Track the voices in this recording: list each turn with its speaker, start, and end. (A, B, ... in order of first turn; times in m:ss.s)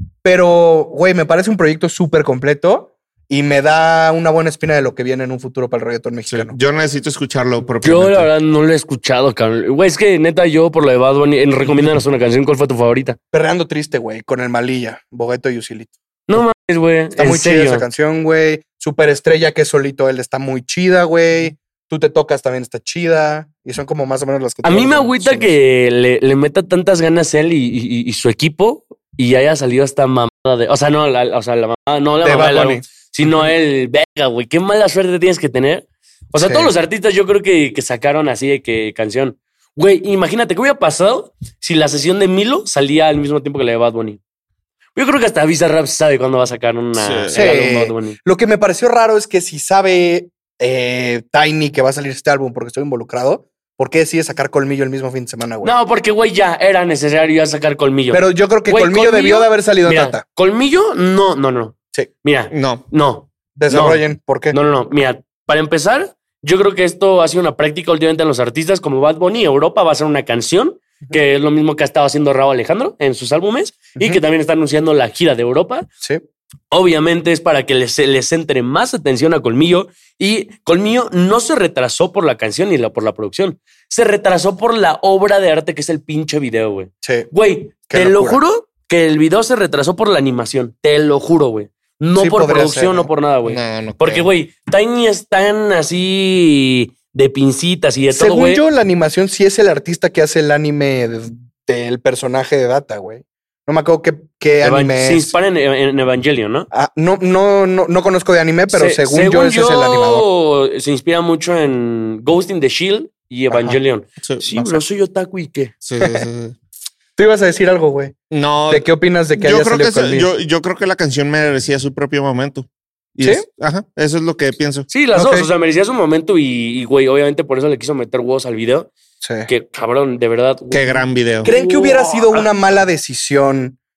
0:00.2-0:06.6 A
0:06.3-0:08.3 B
0:07.8-0:13.2 C
0:13.3-0:15.9 A
0:16.3-0:17.9 C
0:17.2-0:25.5 A
0:24.6-0:44.2 C
0:32.2-0:33.5 A
0:36.4-0:36.7 A
0:45.0-0:48.2 C
0:47.0-0:47.5 B
0:47.3-0:55.7 A
0:55.6-1:15.9 C
0:58.1-1:00.2 A
1:02.5-1:02.8 B
1:03.6-1:04.6 A
1:16.7-1:38.6 C
1:27.0-1:27.3 A
1:27.9-1:28.4 A
1:32.2-1:33.1 A
1:33.4-1:34.3 B
1:38.1-1:45.3 A
1:44.6-1:46.7 C
1:46.7-1:50.3 A
1:48.7-1:55.7 C
1:53.5-1:53.8 A
1:55.8-1:56.6 B
1:56.0-1:56.3 A
1:57.2-1:58.2 A
1:58.3-2:04.9 B
1:58.7-2:00.3 A
2:04.9-2:08.9 C
2:05.1-2:05.5 A
2:09.2-2:09.5 A
2:09.5-2:12.6 C
2:10.7-2:11.5 B
2:11.4-2:13.8 A